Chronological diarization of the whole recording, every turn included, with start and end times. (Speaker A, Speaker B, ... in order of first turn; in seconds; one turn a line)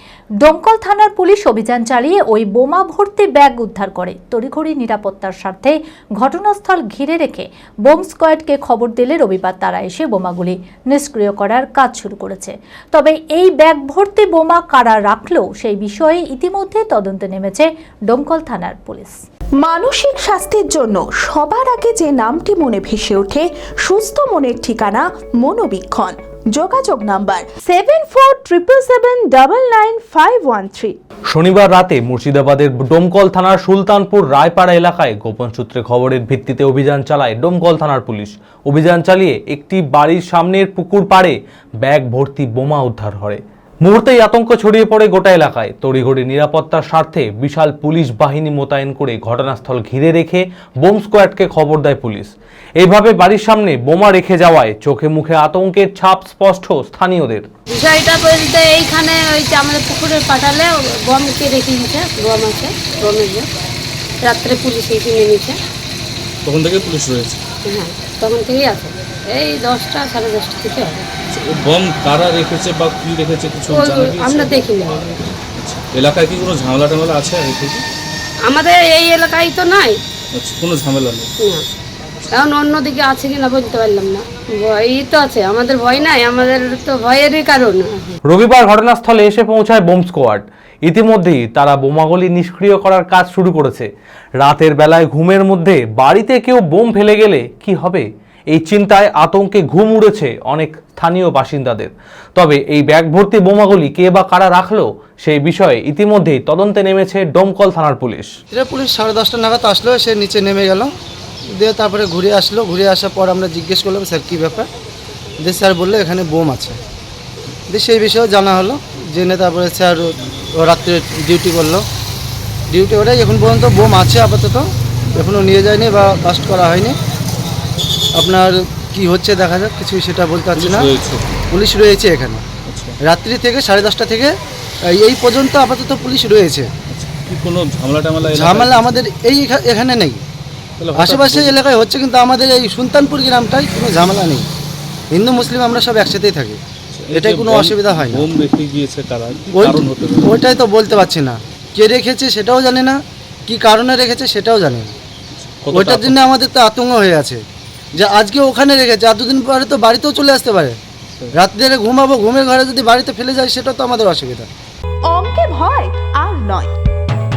Speaker A: 0.4-19.2
Speaker B: 19.6-31.0
Speaker C: 31.3-57.5
Speaker D: 57.7-63.5
Speaker D: 64.2-65.6
Speaker E: 66.4-67.4
Speaker D: 67.7-71.0
Speaker E: 71.3-74.7
Speaker D: 73.7-75.3
Speaker E: 75.5-77.8
Speaker D: 78.5-80.0
Speaker E: 80.3-81.3
Speaker D: 82.3-88.2
Speaker C: 88.2-93.9
Speaker C: 94.4-108.3
Speaker F: 108.5-110.9
Speaker F: 111.6-114.7
Speaker F: 115.4-116.8
Speaker F: 117.7-121.8
Speaker F: 122.7-127.0
Speaker F: 128.2-130.9
Speaker E: 130.5-131.3
Speaker F: 131.5-132.4
Speaker E: 132.6-133.0
Speaker F: 133.0-134.3
Speaker F: 134.8-136.7
Speaker E: 136.9-139.0
Speaker F: 138.3-140.2
Speaker E: 140.8-141.6
Speaker F: 140.9-144.5
Speaker F: 145.1-146.6
Speaker E: 146.9-150.4
Speaker F: 147.1-148.3
Speaker F: 149.5-154.9
Speaker E: 155.3-156.2
Speaker F: 155.7-157.4
Speaker F: 158.0-160.8
Speaker F: 161.3-164.5
Speaker B: 165.1-166.7